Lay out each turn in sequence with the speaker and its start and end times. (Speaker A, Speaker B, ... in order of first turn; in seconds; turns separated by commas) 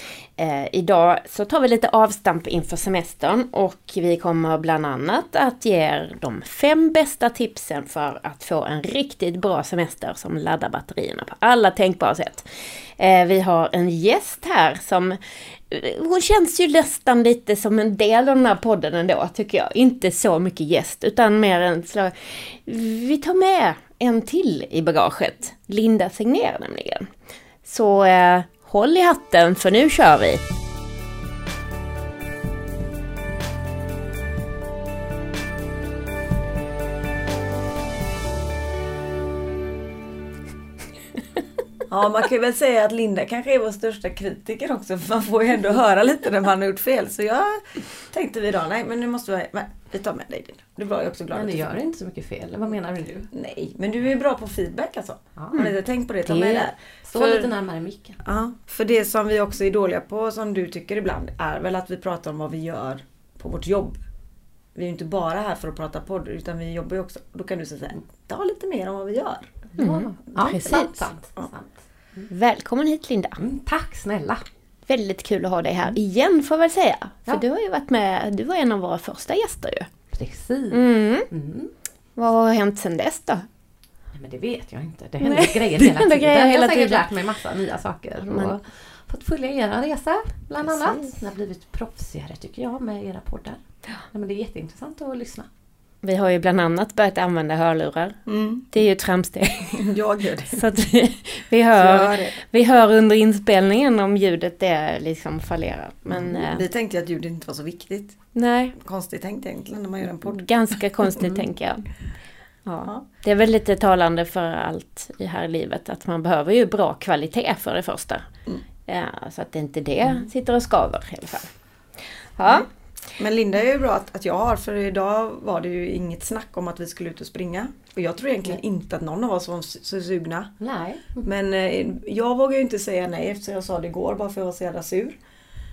Speaker A: 0.4-27.1, Speaker A: 27.6-30.4, Speaker B: 41.9-51.8, Speaker C: 51.3-53.3, Speaker B: 53.3-57.5, Speaker C: 55.4-55.6, Speaker A: 56.2-56.7, Speaker C: 57.0-58.2, Speaker B: 58.2-64.0, Speaker B: 64.7-69.7, Speaker C: 69.8-72.3, Speaker A: 69.8-71.0, Speaker A: 72.3-73.4, Speaker C: 73.4-74.4, Speaker A: 74.9-79.9, Speaker C: 80.1-81.7, Speaker A: 80.7-81.3, Speaker A: 82.2-83.5, Speaker C: 84.1-95.5, Speaker A: 85.2-87.0, Speaker A: 88.2-88.5, Speaker A: 90.6-91.1, Speaker A: 96.0-98.2, Speaker B: 98.2-98.7, Speaker A: 98.7-99.9, Speaker B: 99.7-100.6, Speaker A: 100.5-106.6, Speaker B: 101.7-102.3, Speaker B: 106.1-108.2, Speaker A: 108.3-108.7, Speaker B: 108.8-110.4, Speaker A: 110.2-111.9, Speaker A: 112.7-118.3, Speaker A: 118.9-121.5, Speaker A: 122.3-122.7, Speaker B: 123.2-130.5, Speaker C: 130.6-131.2, Speaker B: 131.2-135.2